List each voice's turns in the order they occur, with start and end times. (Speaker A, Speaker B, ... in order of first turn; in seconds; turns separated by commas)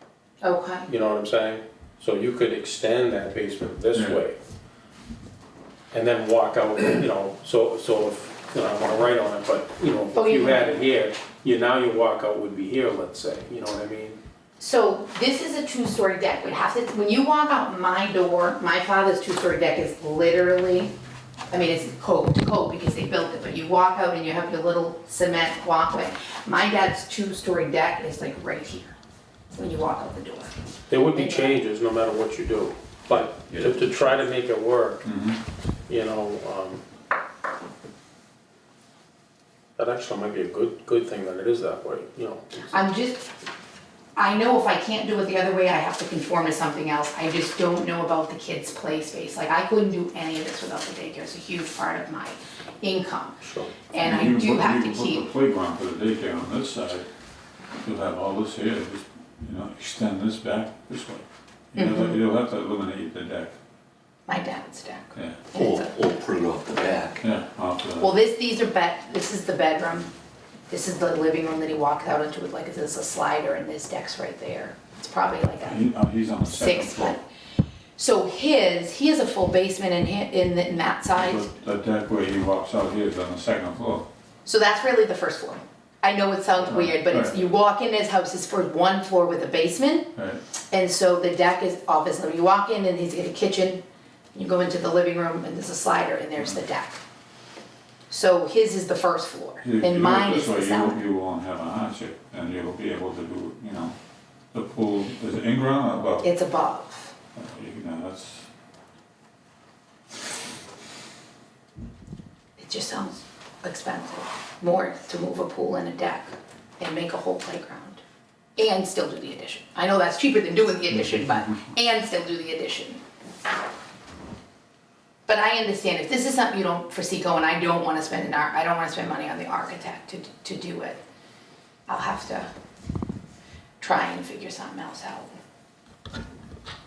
Speaker A: 0.4-0.9, Speaker B: 0.8-4.4, Speaker C: 3.9-4.2, Speaker B: 5.9-14.2, Speaker A: 10.1-10.8, Speaker A: 14.6-20.9, Speaker A: 21.5-28.9, Speaker A: 29.5-30.5, Speaker B: 30.9-35.0, Speaker A: 31.1-31.6, Speaker D: 33.1-34.2, Speaker C: 35.0-35.4, Speaker B: 35.9-36.8, Speaker B: 39.8-42.7, Speaker A: 42.7-43.2, Speaker A: 44.1-55.3, Speaker D: 53.4-53.7, Speaker C: 54.0-57.0, Speaker C: 57.8-63.6, Speaker A: 61.7-62.2, Speaker A: 64.3-65.9, Speaker C: 65.1-65.4, Speaker D: 65.5-67.2, Speaker C: 67.2-68.1, Speaker A: 68.0-70.1, Speaker A: 70.7-75.8, Speaker C: 75.6-77.2, Speaker A: 76.4-77.2, Speaker A: 78.0-81.5, Speaker C: 81.1-84.0, Speaker A: 84.4-90.1, Speaker C: 86.7-87.4, Speaker A: 90.7-93.8, Speaker A: 94.3-97.0, Speaker A: 98.1-101.0, Speaker C: 99.6-104.0, Speaker C: 104.5-106.3, Speaker A: 106.2-107.1, Speaker C: 107.3-108.5, Speaker A: 112.6-118.0, Speaker A: 118.6-123.0, Speaker A: 125.3-131.0, Speaker A: 131.9-132.5, Speaker A: 133.8-135.3